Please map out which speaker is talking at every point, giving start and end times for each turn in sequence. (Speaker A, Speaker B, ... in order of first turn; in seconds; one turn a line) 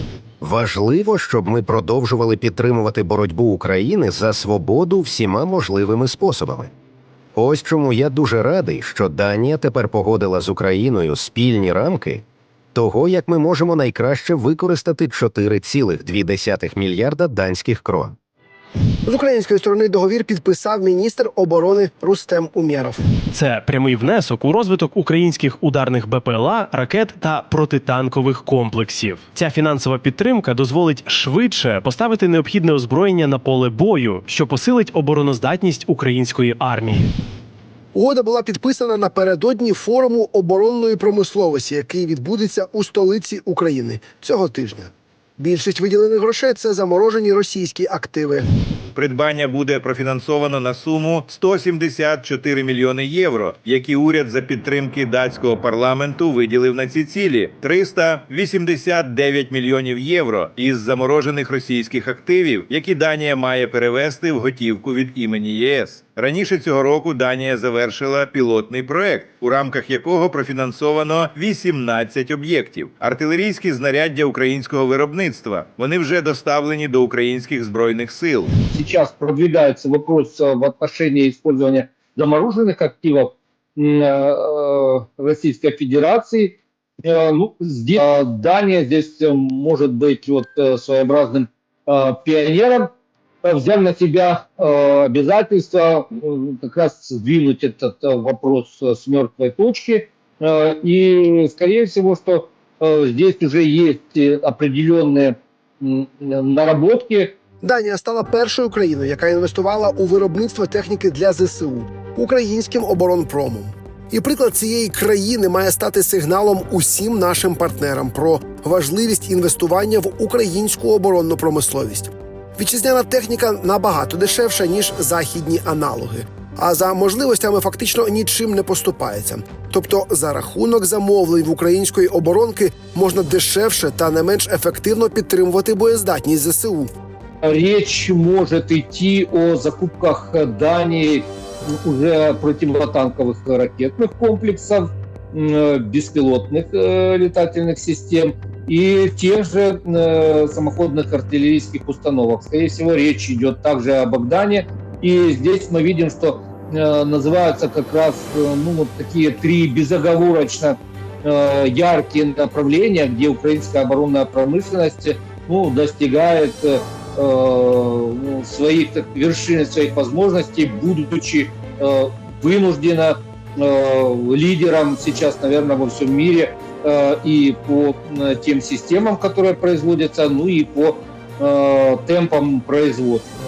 Speaker A: 0.4-6.7
Speaker A: 7.3-12.2
Speaker A: 12.7-18.1
Speaker B: 19.1-23.0
Speaker C: 23.3-37.0
Speaker B: 37.9-48.4
Speaker D: 48.9-78.5
Speaker E: 78.6-92.9
Speaker E: 93.4-107.4
Speaker B: 107.6-136.9
Speaker E: 137.4-141.3
Speaker E: 141.8-183.3